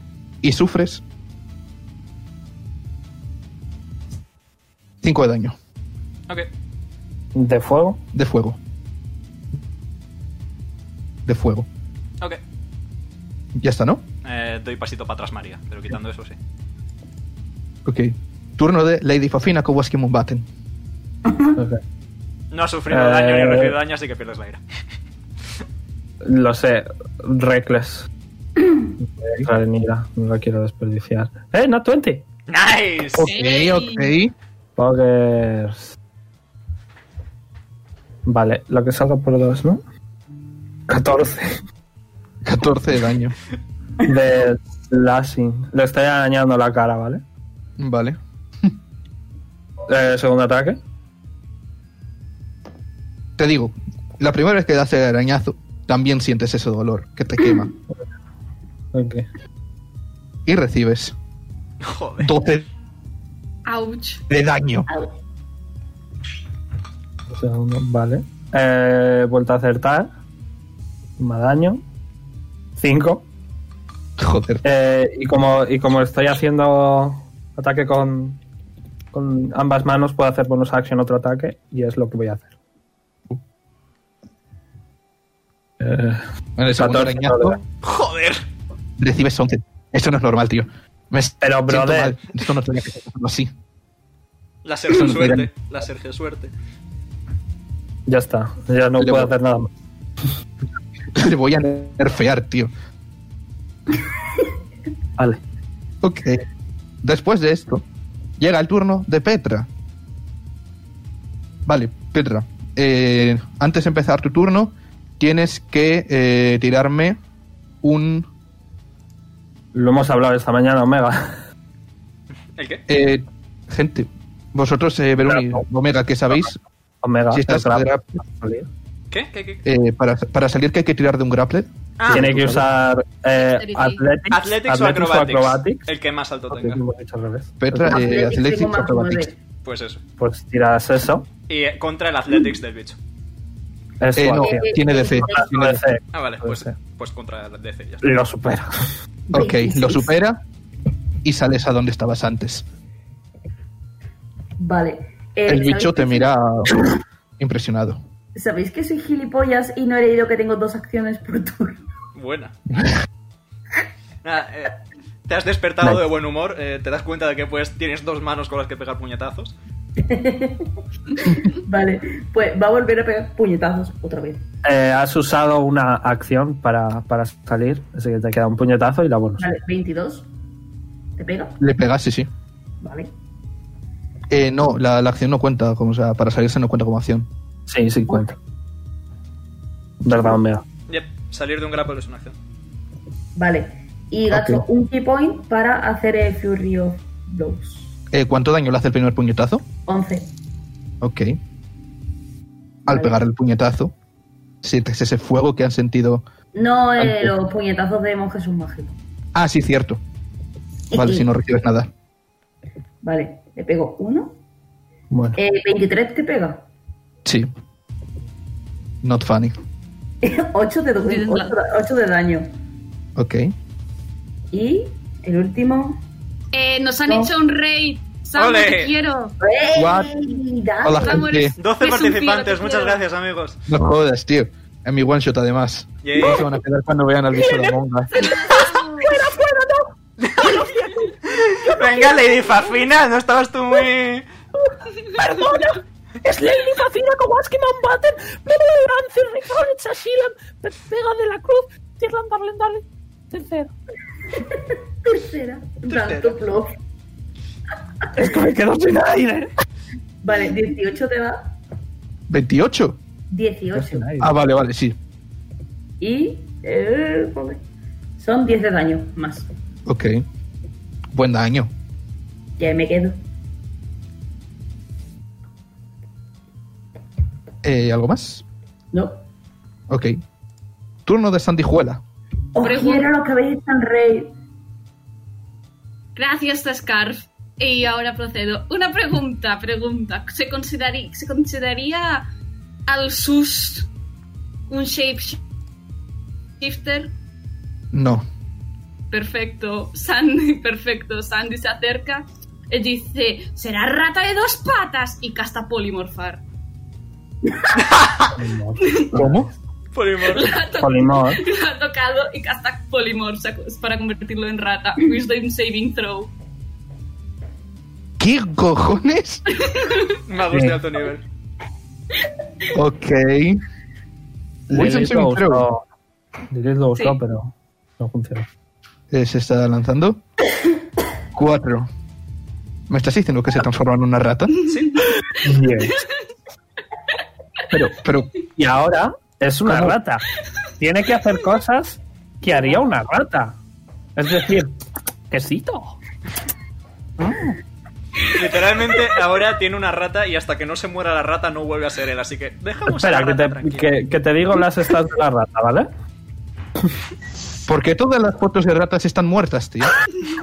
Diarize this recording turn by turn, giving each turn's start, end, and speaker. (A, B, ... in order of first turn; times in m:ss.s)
0:00.4-0:01.0 A
0:05.0-0:05.5 A
0:07.3-0:08.0 B
0:08.1-0:08.6 A
0:11.2-0:11.7 A
0:13.6-0:14.0 A
0:14.2-0:16.4 C
0:17.8-0:20.5 A
0:21.3-0:21.5 D
0:22.5-0:24.6 C
0:22.9-0:23.7 B
0:26.2-0:28.1 B
0:29.2-0:32.2 B
0:32.5-0:33.3 C
0:33.2-0:34.3 A
0:33.2-0:34.1 E
0:34.8-0:35.9 B
0:38.2-0:39.8 B
0:40.9-0:41.6 B
0:42.4-0:43.4 A
0:44.0-0:47.2 B
0:47.8-0:48.7 A
0:49.9-0:50.8 B
0:53.4-0:57.7 A
0:58.9-0:59.3 B
1:00.4-1:01.1 A
1:01.8-1:02.3 C
1:02.2-1:02.7 A
1:03.6-1:04.2 E
1:04.3-1:04.9 A
1:07.3-1:10.1 B
1:11.2-1:11.8 B
1:12.8-1:13.2 B
1:14.2-1:14.6 A
1:14.6-1:18.4 B
1:19.1-1:22.5 B
1:25.8-1:26.2 B
1:26.6-1:27.6 A
1:26.7-1:27.6 B
1:27.8-1:28.4 C
1:29.0-1:33.5 A
1:31.4-1:32.2 B
1:34.6-1:36.5 C
1:34.9-1:35.5 A
1:38.1-1:39.7 B
1:39.0-1:39.3 A
1:41.1-1:42.7 A
1:46.0-1:46.4 A
1:47.0-1:47.8 A
1:48.4-1:49.7 A
1:51.6-1:57.2 A
1:57.8-1:58.3 A
1:59.7-2:01.4 B
2:02.6-2:02.8 C
2:02.9-2:06.6 A
2:05.2-2:05.6 B
2:07.0-2:08.7 B
2:07.3-2:08.1 A
2:09.1-2:09.6 C
2:09.6-2:12.7 A
2:12.0-2:12.3 C
2:12.1-2:15.9 B
2:13.3-2:14.0 E
2:14.3-2:16.8 C
2:16.5-2:18.0 B
2:17.6-2:19.3 A
2:17.9-2:19.4 D
2:19.6-2:20.0 C
2:20.2-2:21.3 B
2:21.5-2:23.0 C
2:24.0-2:26.7 B
2:24.2-2:25.8 A
2:24.4-2:25.5 D
2:26.1-2:28.0 C
2:28.0-2:28.9 B
2:29.3-2:30.1 D
2:29.3-2:30.4 A
2:31.2-2:32.6 A
2:34.6-2:36.3 D
2:35.5-2:36.8 A
2:37.4-2:38.0 A
2:38.3-2:41.8 D
2:42.1-2:42.6 C
2:44.2-2:49.5 C
2:50.0-2:50.7 D
2:51.2-2:54.4 D
2:54.6-2:59.5 B
2:59.4-3:00.3 D
3:01.2-3:01.6 D
3:01.6-3:02.3 A
3:02.8-3:03.1 D
3:04.3-3:07.3 A
3:07.7-3:08.4 B
3:10.0-3:10.6 B
3:10.9-3:12.4 C
3:13.4-3:17.9 D
3:14.3-3:14.6 A
3:18.1-3:19.6 A
3:19.8-3:20.3 D
3:21.0-3:21.4 A
3:22.8-3:23.9 A
3:22.9-3:23.2 D
3:24.6-3:26.2 A
3:26.5-3:29.0 D
3:27.0-3:27.3 A
3:29.3-3:30.0 A
3:30.9-3:31.3 D
3:30.9-3:31.9 A
3:33.0-3:34.4 D
3:35.1-3:35.4 B
3:35.4-3:36.6 D
3:37.2-3:37.5 A
3:39.0-3:39.6 A
3:40.2-3:42.5 D
3:41.0-3:41.5 E
3:43.2-3:43.5 A
3:44.5-3:46.0 D
3:46.5-3:49.3 E
3:47.1-3:47.3 D
3:48.4-3:48.9 C
3:49.4-3:51.3 D
3:49.7-3:50.1 A
3:50.8-3:51.5 A
3:51.0-3:53.0 E
3:51.6-3:53.6 C
3:53.7-3:58.2 A
3:56.0-3:56.5 C
3:57.4-4:02.4 B
3:58.1-3:59.2 E
4:00.2-4:00.7 C
4:01.2-4:04.2 C
4:05.2-4:13.7 B
4:14.4-4:16.7 D
4:15.8-4:16.4 C
4:18.1-4:19.5 B
4:20.2-4:21.5 D
4:22.3-4:23.0 A
4:23.3-4:24.2 D
4:23.7-4:24.3 B
4:24.2-4:25.0 A
4:26.0-4:27.6 D
4:28.2-4:29.5 D
4:29.8-4:30.2 A
4:31.1-4:31.7 A
4:32.6-4:33.2 D
4:37.6-4:38.4 A
4:38.9-4:39.2 D
4:39.9-4:40.2 A
4:41.0-4:42.0 A
4:42.5-4:44.3 D
4:42.6-4:43.1 E
4:46.2-4:52.3 E
4:52.9-4:53.9 E
4:54.7-4:55.4 E
4:56.6-4:57.1 E
4:57.9-4:58.2 A
4:59.1-5:06.4 E
5:08.3-5:09.5 B
5:08.8-5:09.1 E
5:09.1-5:09.5 A
5:09.9-5:10.5 C
5:10.3-5:16.3 E
5:10.8-5:11.4 B
5:18.2-5:19.4 A
5:19.5-5:20.2 E
5:20.3-5:21.2 C
5:20.5-5:20.8 B
5:22.7-5:23.6 A
5:24.7-5:25.7 A
5:24.7-5:25.8 B
5:26.5-5:28.5 B
5:29.1-5:30.2 A
5:31.3-5:31.9 A
5:32.9-5:34.6 A
5:34.7-5:35.0 C
5:35.3-5:36.0 B
5:37.7-5:38.3 A
5:38.6-5:40.2 B
5:39.6-5:40.0 A
5:40.8-5:43.6 B
5:44.2-5:44.8 B
5:45.3-5:46.0 B
5:47.2-5:47.6 B
5:48.3-5:53.9 C
5:52.9-5:55.9 B
5:57.6-6:00.0 A